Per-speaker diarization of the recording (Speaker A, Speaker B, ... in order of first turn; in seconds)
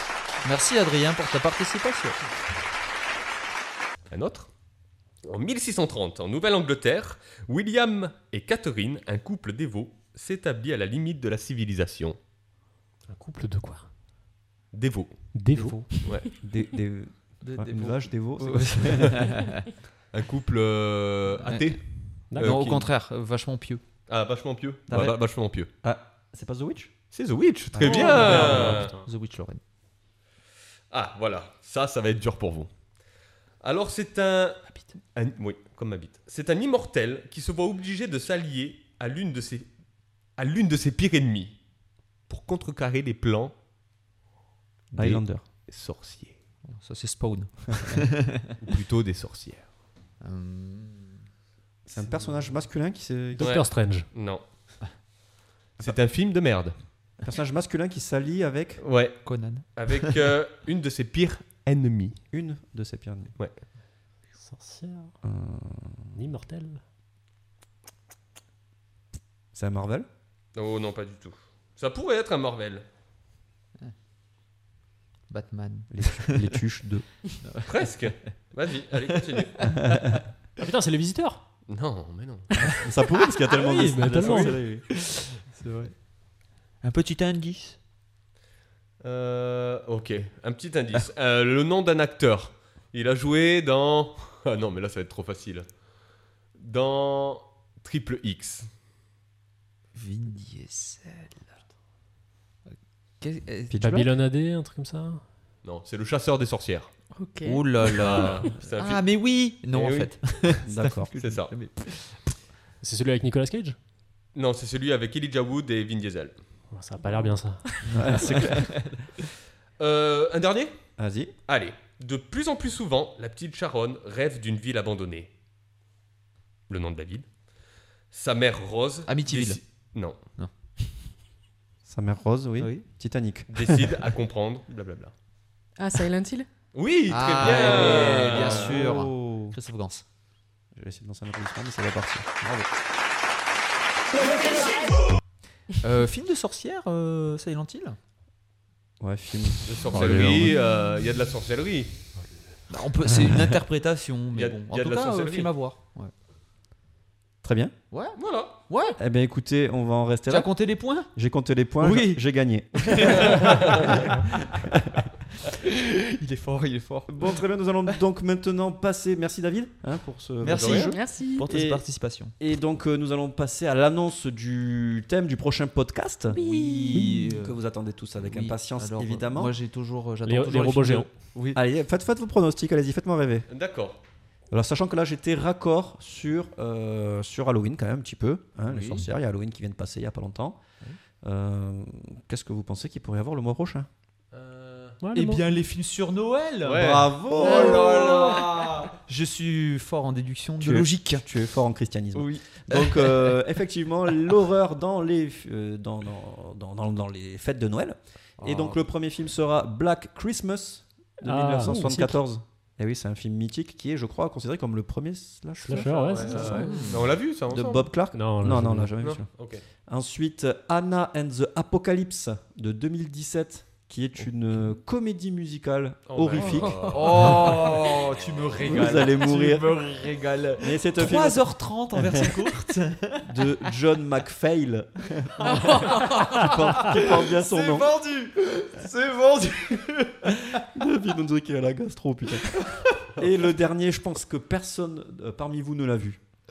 Speaker A: 0.4-2.2, 17.4-19.6, 21.4-21.8, 22.3-23.8, 27.9-29.6, 46.7-48.5, 50.2-51.2, 59.2-60.1, 75.3-76.5, 77.4-77.9, 79.1-79.5, 84.1-84.4, 84.9-85.9, 86.8-87.8, 100.0-101.5, 102.7-104.0, 107.4-112.2, 117.9-119.0, 129.1-129.6, 130.4-130.9, 132.6-132.8, 137.1-140.0, 145.8-148.0, 152.7-156.1, 157.9-159.0, 160.3-161.1, 161.8-162.2, 162.7-163.9, 165.6-167.3, 170.4-172.3, 176.3-177.6, 178.2-181.6, 188.7-189.1, 195.1-201.3, 202.1-203.4, 208.4-208.8, 216.4-217.1, 226.9-233.4, 235.4-240.6
Speaker B: 4.1-4.5, 5.2-12.2, 14.7-15.3, 15.9-16.3, 20.1-22.9, 24.1-25.7, 27.1-28.9, 30.9-32.7, 33.6-39.7, 40.4-41.6, 42.3-43.5, 45.0-46.4, 48.6-49.7, 53.4-54.4, 55.8-56.7, 58.8-62.2, 70.5-72.8, 77.6-79.7, 81.7-82.8, 89.0-95.7, 96.6-98.7, 105.6-106.9, 107.9-109.0, 109.7-110.5, 111.2-111.5, 114.3-116.4, 119.8-120.8, 121.5-125.3, 126.7-127.2, 128.1-130.2, 133.5-135.1, 136.7-138.9, 149.7-151.9, 154.3-155.5, 158.2-158.6, 163.2-164.1, 170.6-170.9, 183.5-184.0, 194.3-195.0, 196.6-198.9, 215.7-217.9, 219.0-219.6, 226.1-229.0
Speaker C: 13.1-13.9, 15.3-16.2, 22.3-22.7, 28.0-29.1, 53.3-54.1, 64.4-65.1, 66.1-66.8, 80.6-81.4, 83.5-84.6, 103.8-105.2, 112.8-113.8, 116.7-118.9, 149.9-150.6, 176.9-177.3, 180.3-181.1, 195.0-195.4, 211.2-212.2, 215.6-216.8, 218.1-218.9
Speaker D: 16.2-19.3, 24.9-25.2, 25.8-26.9, 27.7-28.6, 44.9-45.5, 51.9-53.6, 57.2-58.8, 62.3-63.3, 65.2-66.1, 69.5-70.1, 75.9-77.0, 82.8-84.9, 103.7-104.0, 110.7-111.1, 118.0-118.7, 121.0-121.3, 131.8-134.0, 138.0-139.6, 140.7-142.6, 149.0-150.3, 157.4-157.7, 159.0-163.9, 167.1-171.8, 172.4-179.5, 181.6-183.5, 184.5-190.6, 191.2-193.9, 196.8-198.2, 200.6-216.5, 217.5-219.3, 219.9-227.6, 228.6-229.8, 230.6-232.5, 233.2-237.9, 240.5-246.2
Speaker E: 107.2-107.7, 135.8-136.5, 170.7-171.4, 226.4-226.8, 235.4-236.3